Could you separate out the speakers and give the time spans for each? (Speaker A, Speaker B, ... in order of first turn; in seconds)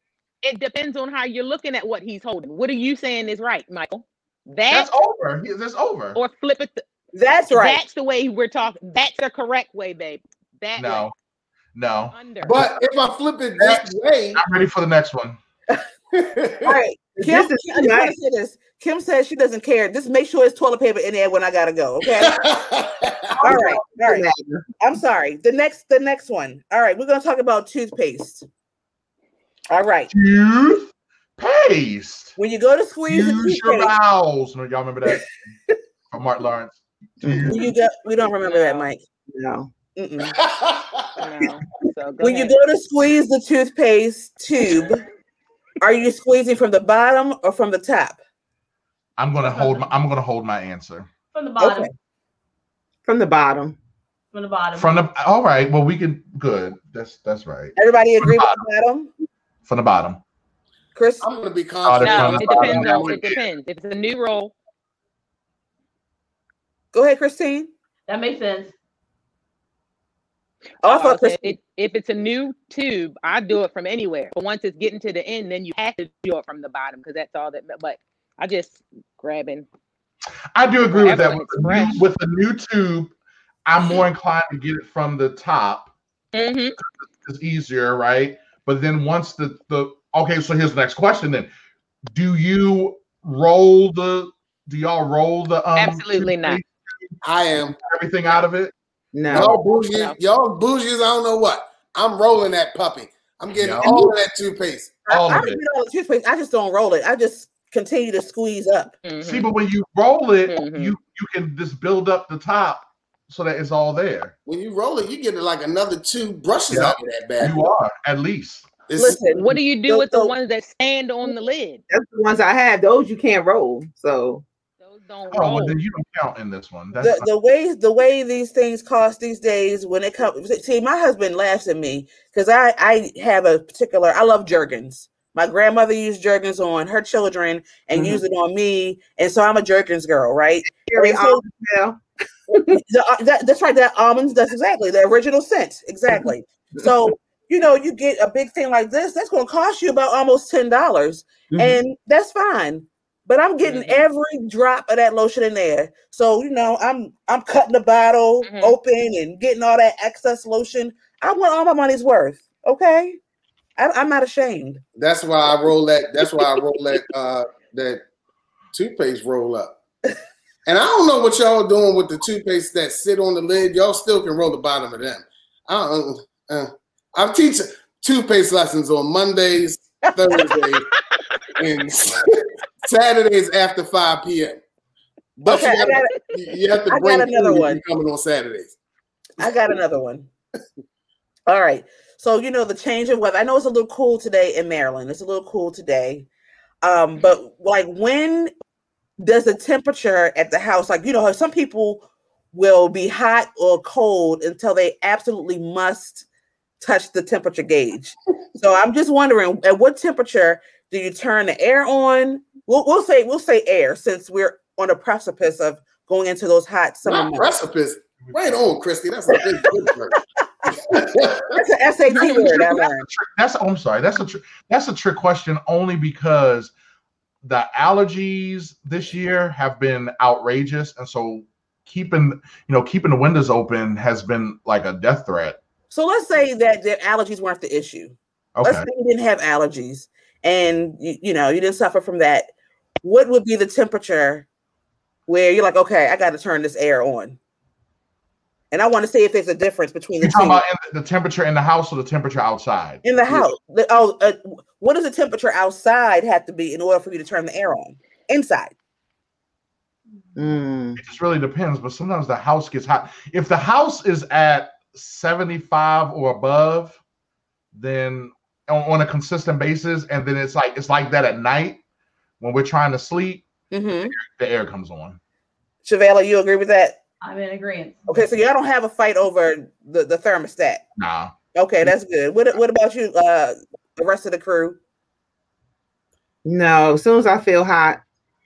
Speaker A: 0.4-4.9, 6.1-6.8, 7.5-11.1, 12.1-12.7, 38.4-38.9, 41.2-42.6, 62.0-64.5, 70.8-79.7, 80.9-82.0, 86.3-86.8, 95.7-96.6, 99.8-100.2, 109.0-109.5, 110.5-111.0, 119.3-121.8, 124.8-125.8, 153.6-154.0, 158.4-158.8
Speaker B: 4.7-6.2, 10.8-11.1, 11.7-12.7, 13.6-15.4, 30.1-32.4, 33.1-35.3, 36.1-37.7, 49.2-51.1, 54.7-58.6, 59.7-60.2, 61.8-63.4, 80.5-83.1, 83.7-85.9, 86.8-91.5, 92.1-97.1, 97.7-98.7, 103.5-104.1, 105.1-105.6, 109.2-114.3, 116.7-118.7, 125.3-127.3, 218.2-218.6, 222.1-226.7, 227.4-235.6, 238.6-238.9, 250.2-253.0, 261.0-267.0, 267.7-271.8, 272.4-273.4, 274.1-275.2, 281.0-281.3
Speaker C: 7.1-7.8, 16.6-22.4, 23.4-24.3, 24.8-28.4, 29.7-30.1, 32.4-33.9, 37.5-39.0, 40.0-40.3, 42.2-45.0, 45.8-48.2, 57.8-59.1, 60.9-61.2, 66.9-67.7, 70.8-71.5, 105.1-109.0, 119.0-120.3, 127.0-141.4, 142.5-163.2, 163.8-164.8, 185.4-186.1, 186.9-187.8, 189.4-190.3, 191.5-196.3, 196.8-198.5, 199.2-206.2, 206.8-217.5, 219.3-219.9, 221.5-223.1, 235.9-242.5, 243.0-244.5, 245.3-247.4, 248.7-250.6, 253.0-258.7, 273.7-274.1, 275.8-277.0, 278.1-280.8, 281.5-284.8
Speaker D: 12.4-14.4, 16.1-16.7, 22.2-23.4, 40.4-41.1, 61.2-63.3, 97.2-97.8, 99.3-105.0, 114.5-117.5, 118.9-119.4, 164.9-168.0, 168.7-169.8, 170.7-180.8, 181.6-184.6, 185.4-188.7, 217.1-221.6
Speaker E: 17.2-18.1, 23.4-24.6, 37.2-37.6, 39.3-39.7, 53.0-53.8, 99.1-99.6, 121.9-124.4, 137.9-138.2, 140.7-142.8, 151.5-151.8, 260.4-261.0, 286.4-288.0
Speaker F: 49.4-49.9, 51.3-51.9, 54.3-55.0, 68.1-68.7, 277.2-278.2